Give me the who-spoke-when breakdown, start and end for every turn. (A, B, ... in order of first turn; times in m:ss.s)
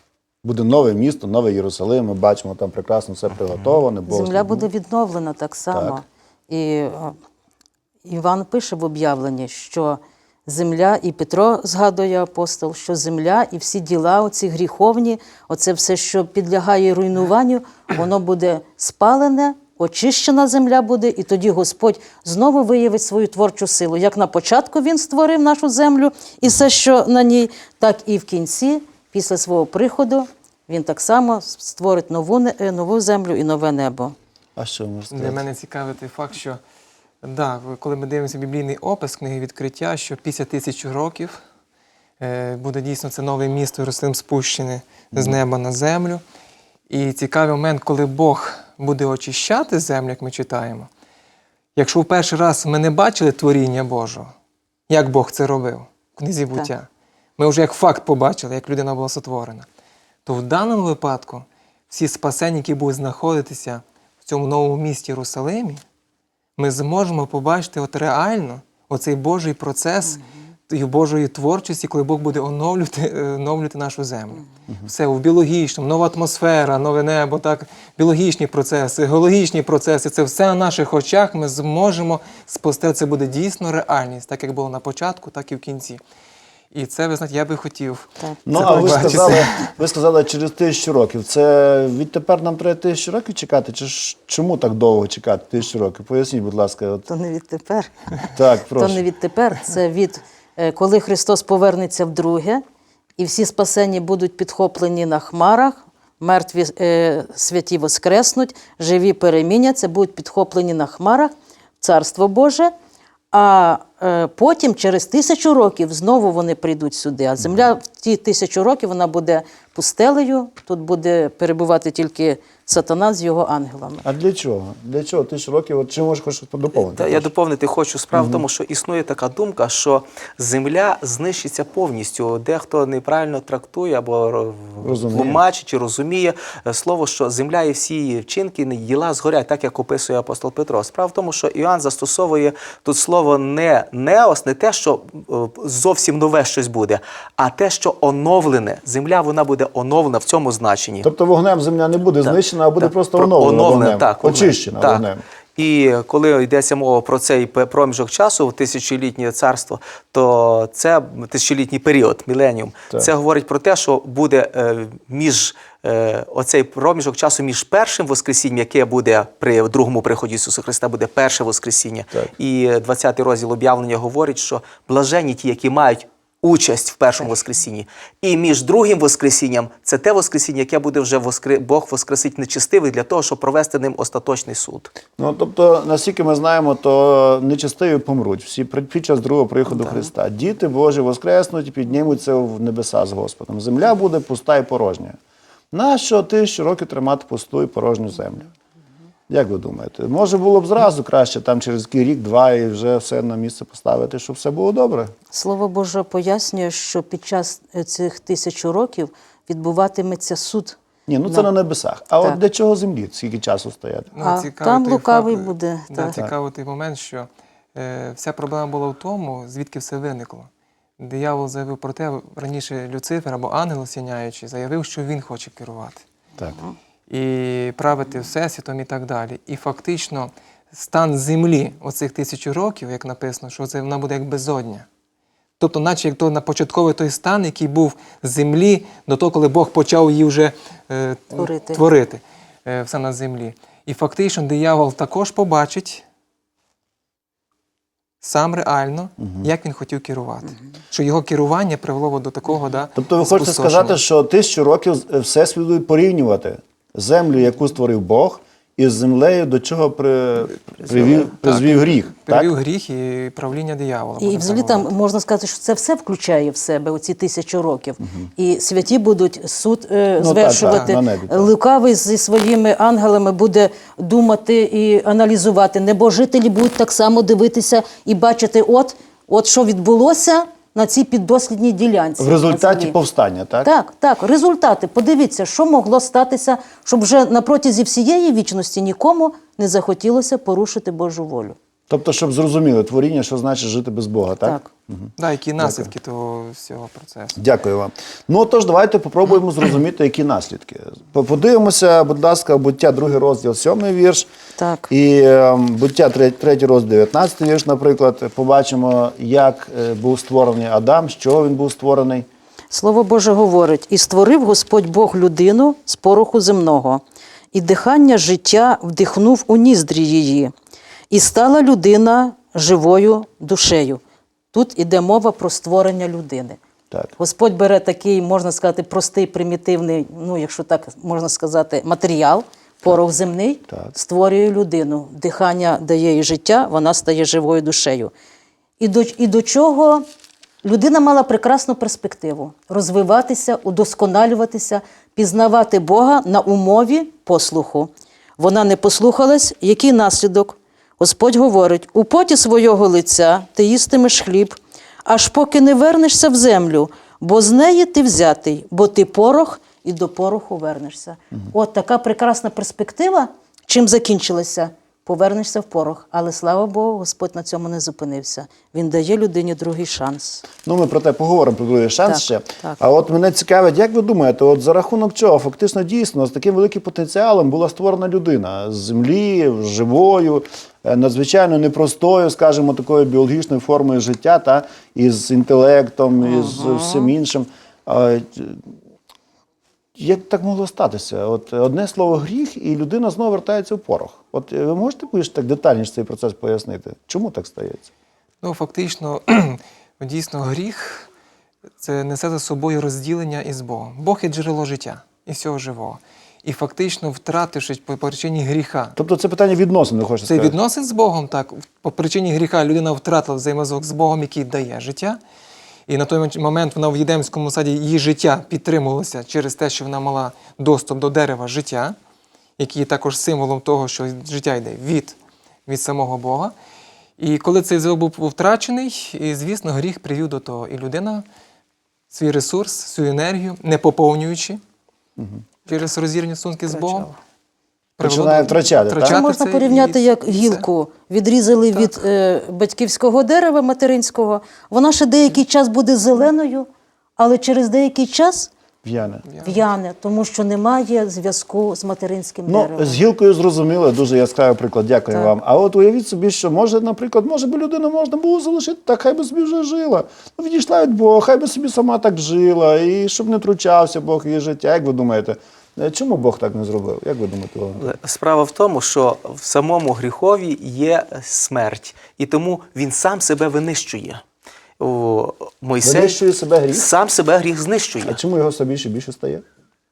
0:00.4-0:04.7 A
0:04.1-0:07.2 B
0:05.7-0:06.0 A
0:08.0-0:34.1 B
0:34.6-0:35.4 A
0:35.1-0:36.6 C
0:37.2-0:41.4 C
0:42.2-0:46.2 C
0:45.1-0:45.4 A
0:46.9-0:50.9 C
0:51.8-0:54.3 C
0:54.9-0:59.6 C
1:00.2-1:05.8 C
1:06.6-1:26.0 C
1:26.7-1:29.7 C
1:28.2-1:29.5 B
1:28.4-1:37.1 A
1:37.1-1:38.0 B
1:38.3-1:39.0 A
1:38.8-1:42.6 B
1:43.2-1:52.7 B
1:53.3-2:04.0 B
2:04.0-2:07.3 A
2:06.7-2:31.1 D
2:08.1-2:08.4 A
2:14.8-2:15.4 A
2:31.0-2:35.2 A
2:32.2-2:35.0 D
2:35.6-3:04.9 D
3:05.2-3:15.2 A
3:15.7-3:18.5 A
3:19.3-3:25.1 A
3:25.3-3:31.5 B
3:31.1-3:34.1 A
3:34.1-3:40.5 C
3:34.2-3:36.2 B
3:41.0-3:46.0 C
3:47.1-3:54.8 C
3:55.6-4:06.0 C
4:01.3-4:01.8 B
4:08.2-4:14.0 C
4:13.0-4:22.5 A
4:20.8-4:24.9 C
4:24.2-4:43.0 B
4:30.2-4:31.5 A
4:30.6-4:31.0 C
4:42.2-4:43.7 A
4:43.6-4:51.6 B
4:51.9-4:55.9 A
4:54.4-4:54.7 B
4:55.2-4:57.4 C
4:57.4-5:04.3 A
5:04.6-5:04.9 B
5:04.9-5:12.3 A
5:12.7-5:17.0 B
5:17.5-5:20.5 B
5:21.1-5:24.0 B
5:24.5-5:26.6 B
5:27.2-5:38.1 B
5:38.8-5:40.0 B
5:40.6-6:10.4 B
6:10.6-6:28.7 A
6:12.1-6:12.8 B
6:26.2-6:27.1 B
6:30.0-6:37.9 A
6:38.4-6:41.1 C
6:41.8-6:48.9 C
6:49.0-6:50.6 A
6:50.3-6:55.2 C
6:55.9-7:02.0 C
7:02.6-7:05.2 C
7:05.7-7:06.5 C
7:07.2-7:11.2 C
7:12.1-7:14.6 C
7:15.2-7:15.4 A
7:15.6-7:17.1 C
7:18.0-7:19.3 A
7:18.0-7:20.6 C
7:19.1-7:28.5 B
7:28.8-7:29.2 A
7:29.3-7:29.5 C
7:29.4-7:33.0 B
7:32.5-7:47.9 A
7:47.8-7:54.2 D
7:54.8-7:56.2 D
7:55.8-7:56.9 A
7:56.7-7:58.2 D
7:58.0-7:59.4 A